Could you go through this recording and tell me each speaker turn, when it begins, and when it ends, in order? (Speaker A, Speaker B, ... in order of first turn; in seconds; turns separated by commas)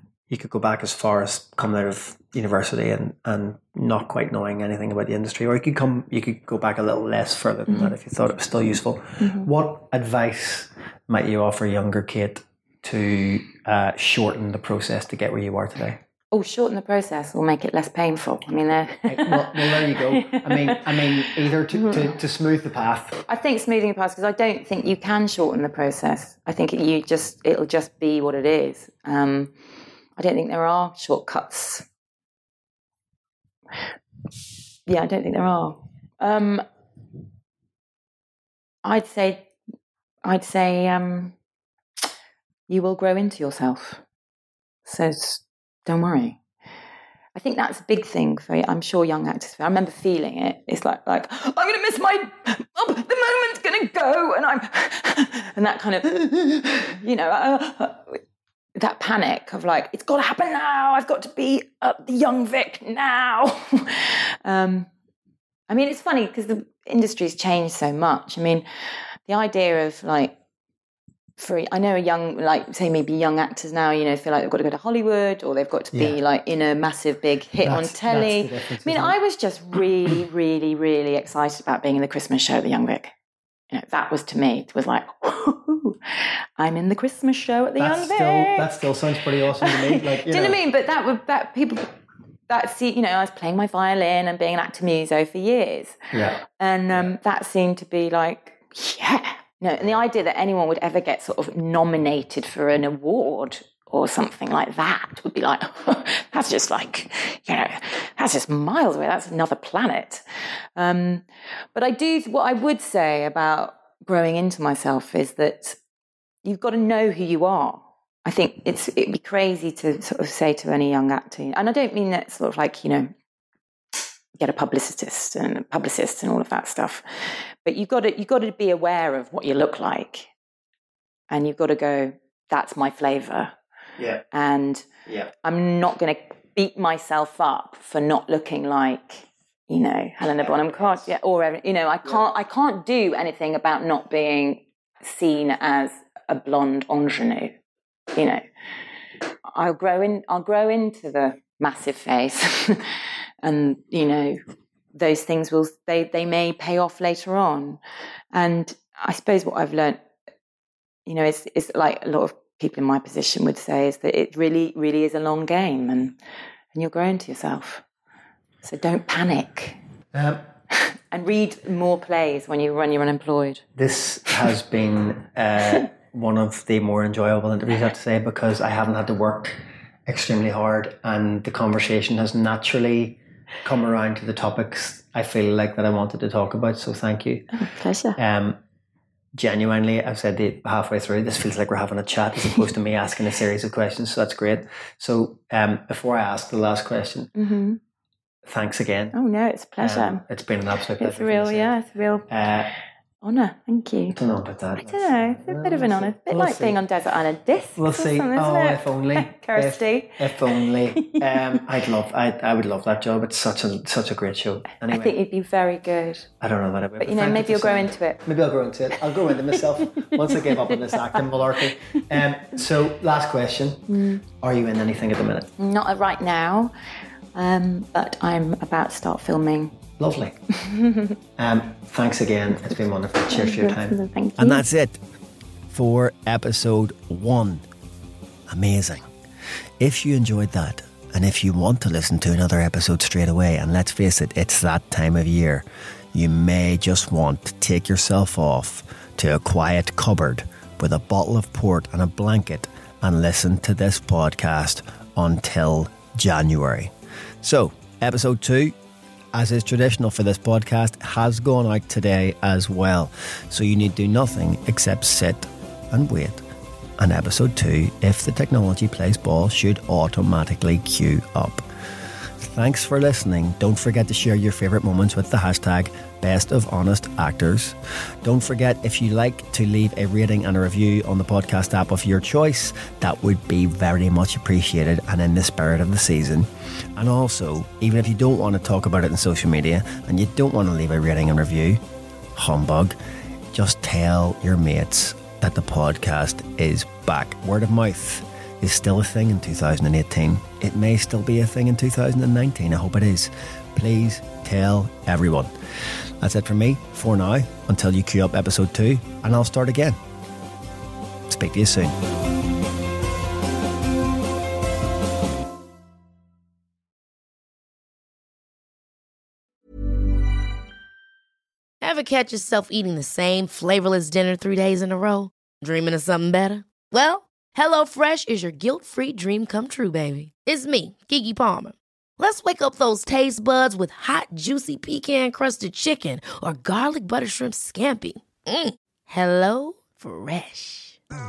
Speaker A: 0.3-16.0, Speaker B: 9.2-9.5, Speaker B: 16.3-22.1, Speaker A: 19.1-23.2, Speaker B: 23.3-29.5, Speaker B: 30.2-31.8, Speaker B: 34.9-36.6, Speaker B: 38.8-39.5, Speaker B: 40.2-41.3, Speaker B: 42.7-44.0, Speaker B: 44.9-46.4, Speaker B: 47.3-58.2, Speaker B: 58.8-64.9, Speaker B: 65.7-68.6, Speaker B: 69.3-70.3, Speaker B: 71.4-83.1, Speaker A: 75.9-76.2, Speaker A: 77.6-79.1, Speaker B: 83.7-91.9, Speaker A: 87.8-90.6, Speaker B: 92.5-110.2, Speaker A: 96.1-97.1, Speaker B: 110.8-111.2, Speaker B: 111.7-115.8, Speaker B: 116.4-123.1, Speaker B: 124.4-127.0, Speaker B: 127.6-130.3, Speaker B: 131.3-133.5, Speaker B: 134.3-147.5, Speaker A: 140.4-140.9, Speaker B: 148.1-148.4, Speaker B: 149.5-154.4, Speaker B: 154.9-157.8, Speaker B: 158.3-160.0, Speaker B: 161.1-166.2, Speaker B: 166.7-167.8, Speaker B: 168.6-169.8, Speaker A: 170.1-170.4, Speaker B: 170.7-173.6, Speaker A: 173.8-187.5, Speaker B: 187.5-188.2, Speaker A: 188.2-188.6, Speaker A: 189.3-197.3, Speaker B: 197.3-197.8, Speaker A: 198.4-199.2, Speaker B: 199.1-200.2, Speaker A: 199.8-201.7, Speaker B: 201.0-202.3, Speaker A: 202.3-202.7, Speaker B: 203.2-204.2, Speaker A: 204.1-206.8, Speaker B: 204.8-211.6, Speaker A: 207.8-215.1, Speaker B: 214.9-216.3, Speaker A: 216.4-225.5, Speaker B: 217.0-218.2, Speaker B: 219.2-221.2, Speaker B: 223.9-224.2, Speaker B: 225.6-226.7, Speaker B: 227.3-229.8, Speaker A: 230.0-230.4, Speaker B: 230.6-231.2, Speaker A: 231.4-235.0, Speaker B: 233.3-234.6, Speaker A: 235.7-237.6, Speaker A: 238.5-239.0, Speaker A: 239.8-258.7, Speaker A: 259.3-266.4, Speaker A: 267.0-271.6, Speaker A: 272.4-291.8, Speaker A: 292.3-292.9, Speaker A: 293.5-305.5, Speaker A: 306.2-310.0, Speaker A: 311.3-311.9, Speaker C: 321.8-341.0